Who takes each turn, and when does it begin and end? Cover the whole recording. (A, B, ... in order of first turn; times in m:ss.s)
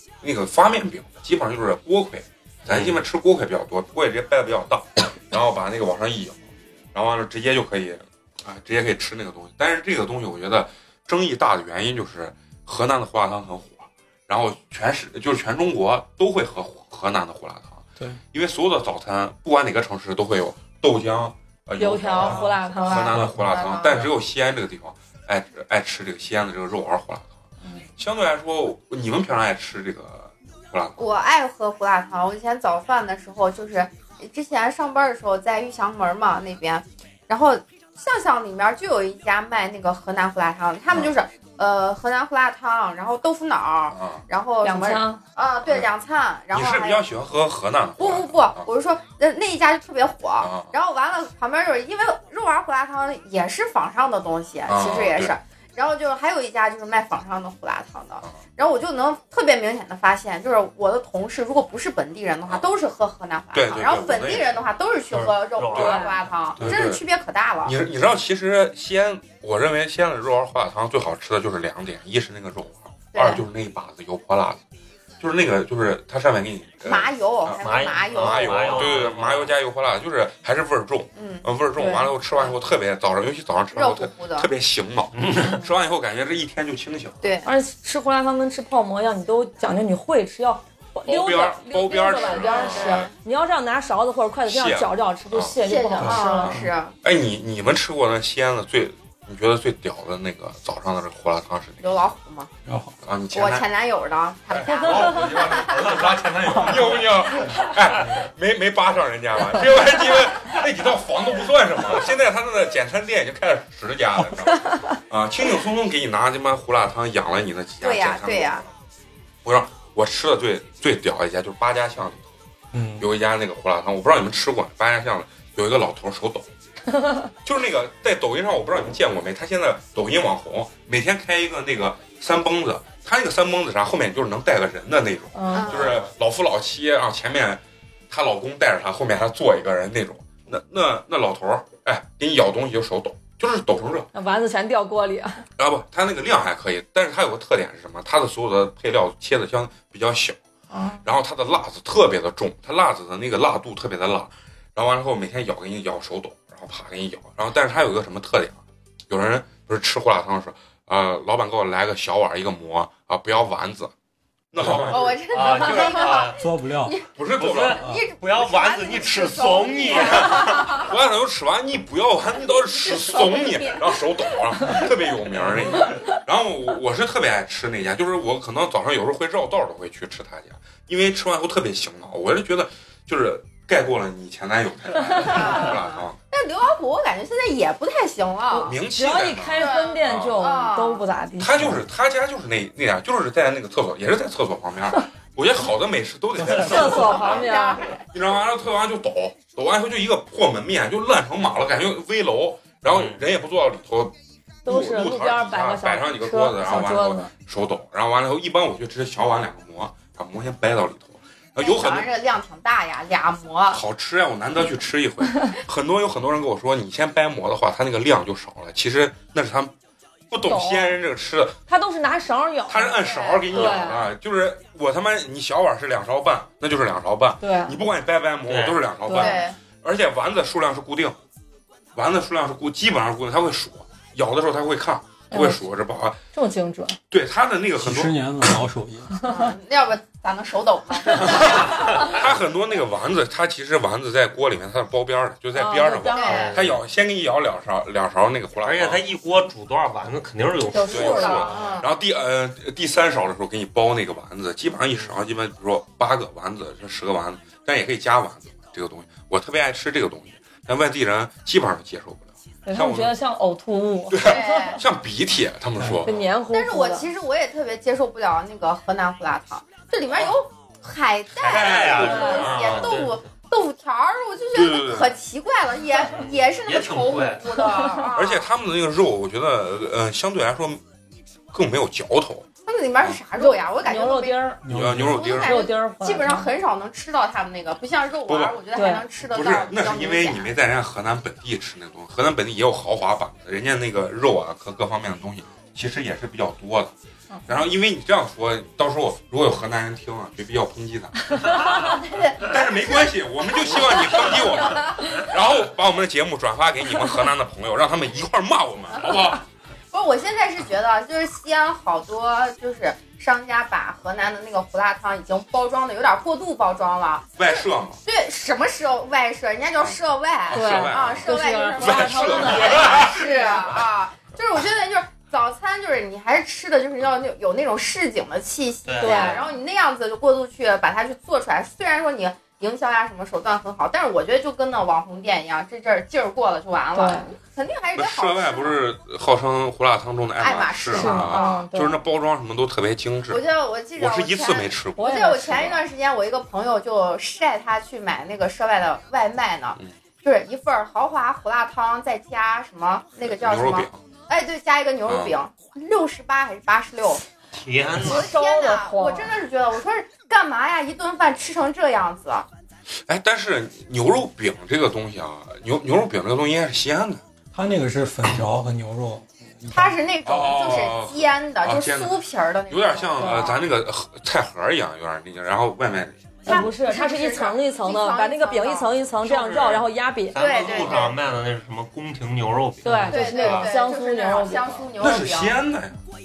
0:00.2-0:27.4 A
0:02.6-0:03.0 B
0:21.8-0:23.2 C
0:22.0-0:24.1 D
0:28.0-0:31.1 A
0:31.0-0:47.1 D
0:40.9-0:41.1 A
0:43.9-0:44.2 A
0:44.6-0:45.2 C
0:46.5-0:48.7 A
0:48.0-1:07.7 D
0:50.4-0:50.7 A
0:54.7-0:55.3 A
1:03.5-1:04.5 A
1:05.1-1:06.0 B
1:05.7-1:06.0 A
1:05.7-1:06.2 C
1:06.6-1:07.0 A
1:07.6-1:14.6 A
1:13.1-1:13.4 D
1:15.2-1:27.2 A
1:16.8-1:19.0 D
1:17.6-1:19.5 B
1:21.2-1:21.4 D
1:21.8-1:22.0 C
1:23.7-1:24.5 D
1:25.1-1:25.6 B
1:27.2-1:27.5 D
1:27.4-1:36.6 C
1:31.0-1:33.1 A
1:32.0-1:33.1 D
1:34.4-1:35.6 A
1:35.6-1:36.9 D
1:36.0-1:36.6 E
1:36.4-1:42.0 A
1:41.8-1:42.5 D
1:42.6-1:42.9 E
1:43.0-1:43.7 A
1:43.3-1:46.0 D
1:44.5-1:58.7 A
1:44.7-1:45.4 C
1:45.7-1:46.2 B
1:57.8-1:58.6 D
1:59.4-2:02.3 A
2:02.7-2:03.1 E
2:03.0-2:06.5 A
2:07.4-2:24.1 A
2:15.3-2:15.8 C
2:15.5-2:16.0 D
2:15.7-2:16.1 B
2:24.1-2:25.4 C
2:25.6-2:30.4 A
2:30.7-2:31.0 C
2:31.0-2:43.9 A
2:44.5-2:46.2 A
2:44.6-2:46.4 B
2:44.7-2:50.9 D
2:46.4-2:47.0 E
2:47.2-2:47.8 A
2:47.4-2:50.9 B
2:49.9-3:06.2 A
2:52.8-2:53.9 D
2:55.5-2:55.9 B
3:05.0-3:05.5 C
3:05.2-3:08.8 D
3:08.5-3:11.8 C
3:08.6-3:10.4 A
3:09.6-3:11.0 D
3:11.4-3:24.1 A
3:16.4-3:16.7 E
3:16.4-3:17.8 C
3:16.5-3:18.0 D
3:22.9-3:23.2 B
3:24.6-3:27.3 C
3:24.6-3:32.1 A
3:31.6-3:33.8 D
3:33.7-3:39.7 A
3:40.3-3:41.6 A
3:40.4-3:41.0 C
3:41.7-3:43.0 C
3:42.7-3:51.2 A
3:43.0-3:44.0 D
3:43.5-3:44.0 C
3:47.4-3:47.8 C
3:48.5-3:48.8 B
3:49.0-3:49.3 C
3:49.1-3:49.6 D
3:51.9-3:56.2 A
3:55.3-3:55.6 C
3:56.3-3:57.0 C
3:57.1-3:58.5 A
3:57.8-3:59.2 E
3:59.2-3:59.5 C
3:59.2-4:02.2 D
4:01.2-4:09.0 A
4:05.5-4:06.4 C
4:06.0-4:06.6 D
4:06.3-4:06.8 B
4:08.6-4:11.7 B
4:10.7-4:11.5 C
4:10.8-4:23.2 A
4:10.9-4:11.9 D
4:22.6-4:24.8 C
4:24.1-4:26.2 A
4:24.2-4:24.8 D
4:25.8-4:26.0 E
4:26.0-4:27.1 C
4:26.5-4:38.5 D
4:31.4-4:33.2 B
4:31.4-4:33.0 A
4:34.5-4:35.1 A
4:36.4-4:37.6 B
4:37.6-4:38.0 C
4:38.1-4:40.8 A
4:41.5-4:42.5 A
4:42.6-4:50.5 D
4:43.4-4:44.6 C
4:44.6-4:45.2 E
4:44.7-4:45.7 A
4:45.4-4:46.5 C
4:48.2-4:48.6 A
4:48.7-4:49.0 C
4:49.3-4:56.9 A
4:57.5-5:01.8 A
5:01.8-5:05.2 D
5:02.3-5:09.4 A
5:09.9-5:38.8 D
5:17.4-5:18.0 A
5:19.8-5:23.8 A
5:20.5-5:23.6 C
5:28.8-5:29.5 B
5:29.0-5:29.5 C
5:36.9-5:37.3 C
5:37.9-5:43.4 A
5:40.4-5:41.6 D
5:40.9-5:42.0 C
5:43.3-5:57.2 D
5:44.0-5:45.8 A
5:45.0-5:45.4 C
5:53.2-5:54.0 A
5:55.0-5:55.4 A
5:57.5-5:58.3 B
5:58.0-6:02.5 D
5:58.0-5:59.4 C
6:03.0-6:07.2 A
6:07.5-6:10.0 E
6:09.7-6:13.6 D
6:10.2-6:16.2 A
6:13.2-6:13.5 C
6:16.4-6:18.9 D
6:16.5-6:20.4 C
6:19.2-6:23.6 B
6:20.3-6:21.2 D
6:22.8-6:24.9 C
6:23.1-6:25.6 D
6:25.0-6:26.0 A